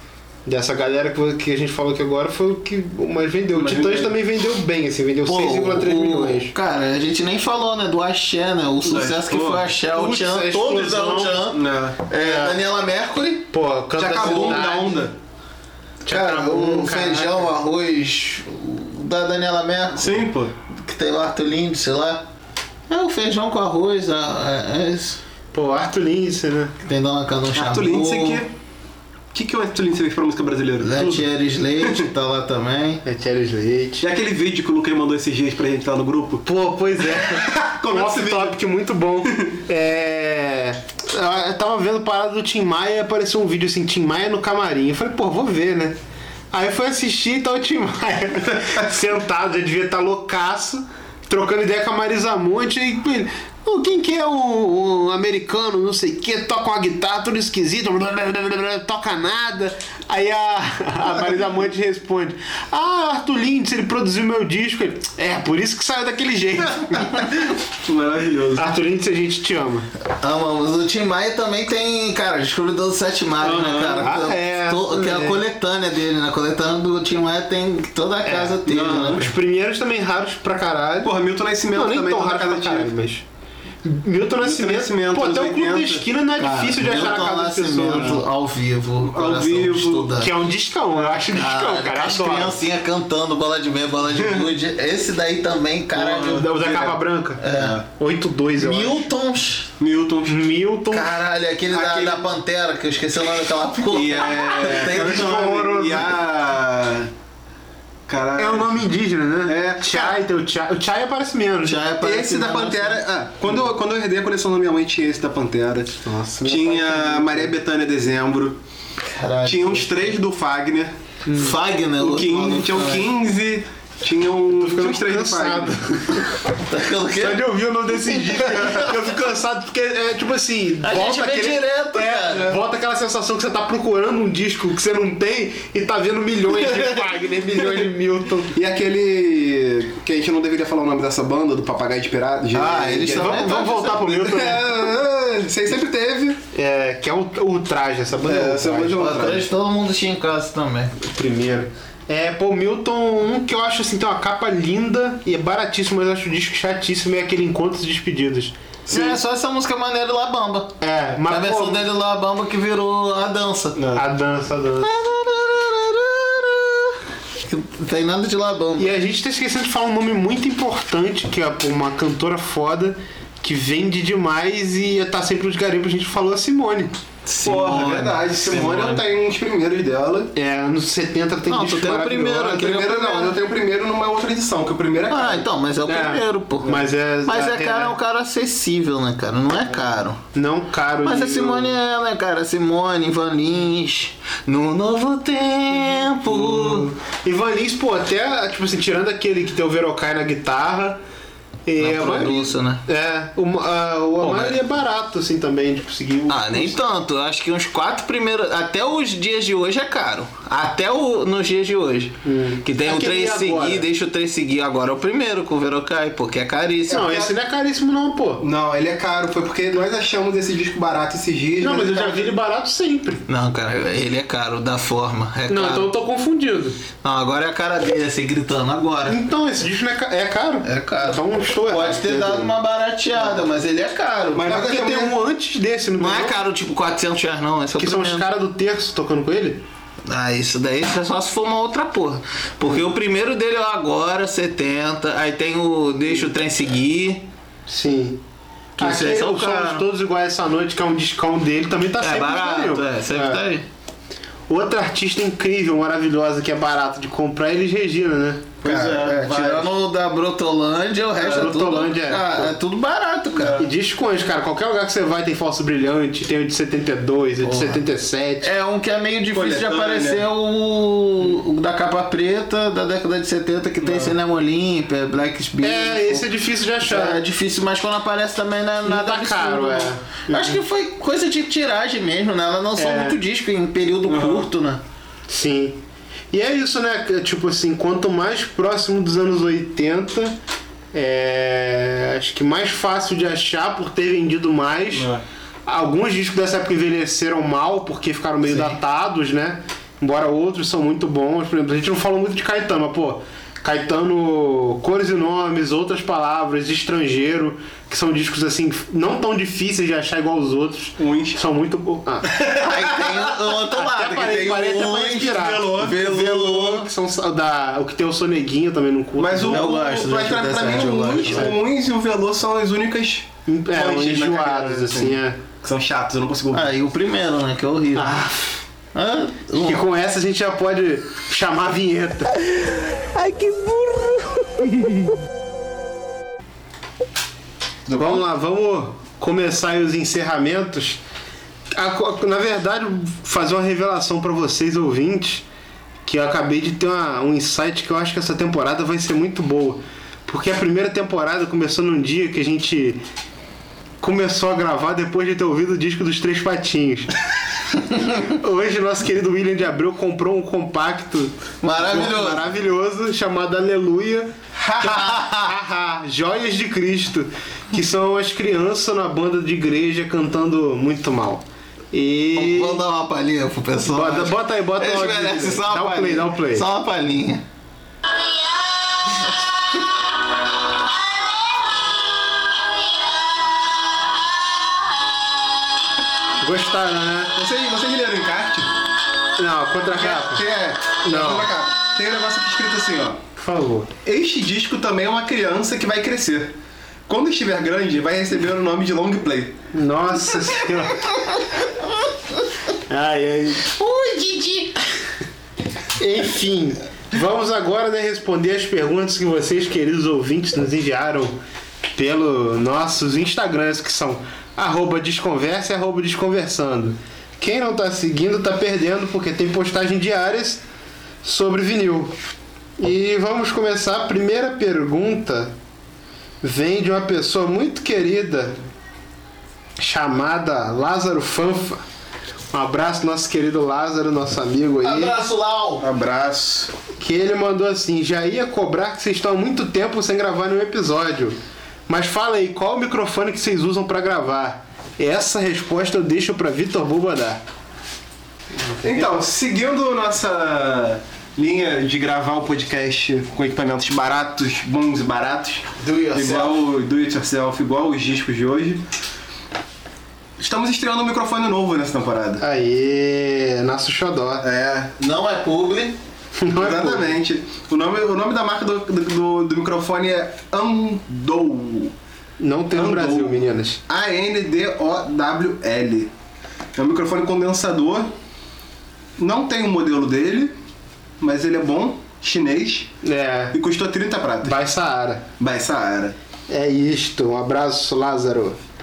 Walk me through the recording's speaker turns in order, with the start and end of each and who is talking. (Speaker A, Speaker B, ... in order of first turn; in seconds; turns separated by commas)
Speaker A: 0.5-6.5, Speaker B: 3.5-4.1, Speaker C: 5.2-13.5, Speaker B: 8.8-9.7, Speaker A: 9.9-11.5, Speaker B: 11.5-12.0, Speaker A: 12.2-12.6, Speaker A: 13.5-15.1, Speaker B: 13.9-15.1, Speaker C: 14.2-14.5, Speaker A: 16.0-17.5, Speaker C: 16.1-22.2, Speaker B: 20.0-20.5, Speaker C: 22.9-25.2, Speaker A: 25.5-26.7, Speaker C: 26.8-28.4, Speaker B: 27.5-28.5, Speaker B: 29.3-31.2, Speaker C: 30.8-33.0, Speaker A: 33.0-34.1, Speaker B: 34.0-36.5, Speaker A: 36.4-46.0, Speaker B: 37.1-38.6, Speaker B: 39.3-39.5, Speaker A: 46.5-67.4, Speaker B: 67.8-68.7, Speaker A: 68.5-69.9, Speaker C: 70.1-79.3, Speaker B: 73.4-74.1, Speaker A: 74.0-75.4, Speaker A: 78.2-81.1, Speaker B: 78.7-79.2, Speaker B: 81.0-82.9, Speaker A: 81.7-83.2, Speaker A: 83.8-88.2, Speaker B: 84.4-86.0, Speaker C: 86.4-90.3, Speaker B: 87.9-88.2, Speaker B: 89.0-90.1, Speaker A: 90.2-92.6, Speaker C: 91.2-96.5, Speaker B: 94.2-94.5, Speaker B: 95.9-97.0, Speaker A: 96.2-99.1, Speaker C: 97.4-97.8, Speaker B: 97.5-97.8, Speaker C: 98.6-99.7, Speaker B: 99.8-100.5, Speaker A: 100.3-101.1, Speaker C: 100.9-105.4, Speaker B: 101.7-102.3, Speaker B: 103.9-107.1, Speaker A: 104.5-106.2, Speaker B: 108.1-108.7, Speaker A: 108.4-111.9, Speaker B: 109.5-110.2, Speaker C: 111.6-113.0, Speaker B: 112.0-118.6, Speaker A: 116.0-117.5, Speaker C: 119.0-119.9, Speaker B: 119.4-120.9, Speaker A: 121.3-121.5, Speaker C: 121.3-123.1, Speaker B: 122.0-126.2, Speaker A: 124.5-126.3, Speaker C: 126.6-127.4, Speaker A: 127.1-138.6, Speaker C: 130.8-132.6, Speaker B: 136.5-137.9, Speaker B: 138.5-146.4, Speaker C: 142.5-144.1, Speaker A: 143.1-144.9, Speaker A: 146.5-149.0, Speaker B: 148.2-149.5, Speaker C: 149.0-150.9, Speaker A: 151.0-159.2, Speaker C: 158.9-163.8, Speaker A: 160.8-161.8, Speaker B: 163.8-164.0, Speaker A: 163.9-164.9, Speaker C: 164.8-168.9, Speaker A: 168.8-176.9, Speaker C: 177.2-178.9, Speaker B: 177.4-180.3, Speaker A: 180.3-183.3, Speaker C: 181.5-183.3, Speaker B: 182.6-185.5, Speaker C: 185.1-190.2, Speaker A: 185.8-188.0, Speaker A: 190.3-191.8, Speaker C: 191.0-196.9, Speaker A: 195.8-201.0, Speaker A: 201.7-206.8, Speaker C: 201.8-202.8, Speaker C: 204.2-204.6, Speaker C: 206.3-217.1, Speaker A: 212.2-213.9, Speaker A: 216.9-218.4, Speaker B: 216.9-217.3, Speaker B: 218.4-222.3, Speaker A: 221.6-223.2, Speaker C: 223.3-225.9, Speaker A: 225.5-226.8, Speaker C: 227.0-229.2, Speaker A: 229.1-232.6, Speaker C: 230.6-234.7, Speaker B: 234.3-235.1, Speaker A: 234.5-236.4, Speaker C: 236.0-238.3, Speaker A: 237.8-239.6, Speaker C: 240.1-247.2, Speaker A: 247.7-248.2, Speaker C: 248.8-249.8, Speaker A: 248.8-253.4, Speaker C: 252.0-253.6, Speaker A: 254.5-258.7, Speaker B: 258.6-259.7, Speaker C: 258.6-263.6, Speaker A: 261.2-262.5, Speaker B: 263.4-263.7, Speaker A: 263.6-268.5, Speaker C: 267.4-267.8, Speaker C: 268.4-276.3, Speaker B: 269.3-270.2, Speaker B: 273.8-274.1, Speaker A: 275.6-277.2, Speaker C: 276.8-284.8, Speaker A: 278.8-280.6, Speaker A: 282.8-283.2, Speaker B: 284.1-284.5, Speaker A: 285.3-290.4, Speaker A: 290.9-295.1, Speaker B: 294.9-295.2, Speaker A: 295.6-312.3, Speaker B: 311.0-311.4, Speaker B: 312.2-313.1, Speaker C: 312.6-316.9, Speaker A: 313.7-319.8, Speaker B: 314.3-316.2, Speaker B: 319.2-326.7, Speaker C: 319.5-321.5, Speaker A: 321.2-321.6, Speaker A: 323.4-325.4, Speaker C: 326.5-328.3, Speaker A: 327.9-328.4, Speaker C: 328.9-329.8, Speaker A: 329.6-332.3, Speaker C: 333.1-334.3, Speaker B: 337.9-338.2, Speaker A: 337.9-341.0, Speaker A: 341.7-345.4, Speaker A: 346.0-353.0, Speaker A: 354.0-357.1, Speaker A: 358.2-372.8, Speaker C: 361.6-362.4, Speaker C: 364.6-365.5, Speaker C: 372.3-377.4, Speaker A: 373.8-376.7, Speaker A: 386.4-387.3, Speaker B: 387.3-388.7, Speaker A: 389.4-390.4, Speaker B: 389.9-393.2, Speaker A: 391.0-391.5, Speaker A: 393.4-393.9, Speaker B: 394.0-396.5, Speaker B: 397.1-399.6, Speaker A: 399.7-401.1, Speaker A: 402.9-403.7, Speaker C: 403.6-404.8, Speaker A: 406.0-411.4, Speaker A: 411.9-420.6, Speaker A: 421.2-422.1, Speaker A: 422.8-425.5, Speaker A: 426.4-428.6, Speaker A: 429.8-431.8, Speaker A: 432.5-435.2, Speaker C: 434.8-435.8, Speaker B: 435.8-436.7, Speaker A: 436.9-447.4, Speaker B: 448.8-458.8, Speaker C: 455.8-456.6, Speaker B: 460.4-462.4, Speaker A: 462.4-464.4, Speaker B: 464.4-464.9, Speaker C: 465.0-466.0, Speaker A: 466.4-467.1, Speaker B: 466.6-471.9, Speaker A: 472.4-473.8, Speaker B: 472.7-476.1, Speaker B: 476.8-478.1, Speaker B: 479.2-480.5, Speaker B: 481.2-482.9, Speaker A: 483.0-483.6, Speaker B: 483.5-484.6, Speaker A: 484.4-485.2, Speaker B: 485.4-486.1, Speaker A: 486.5-488.6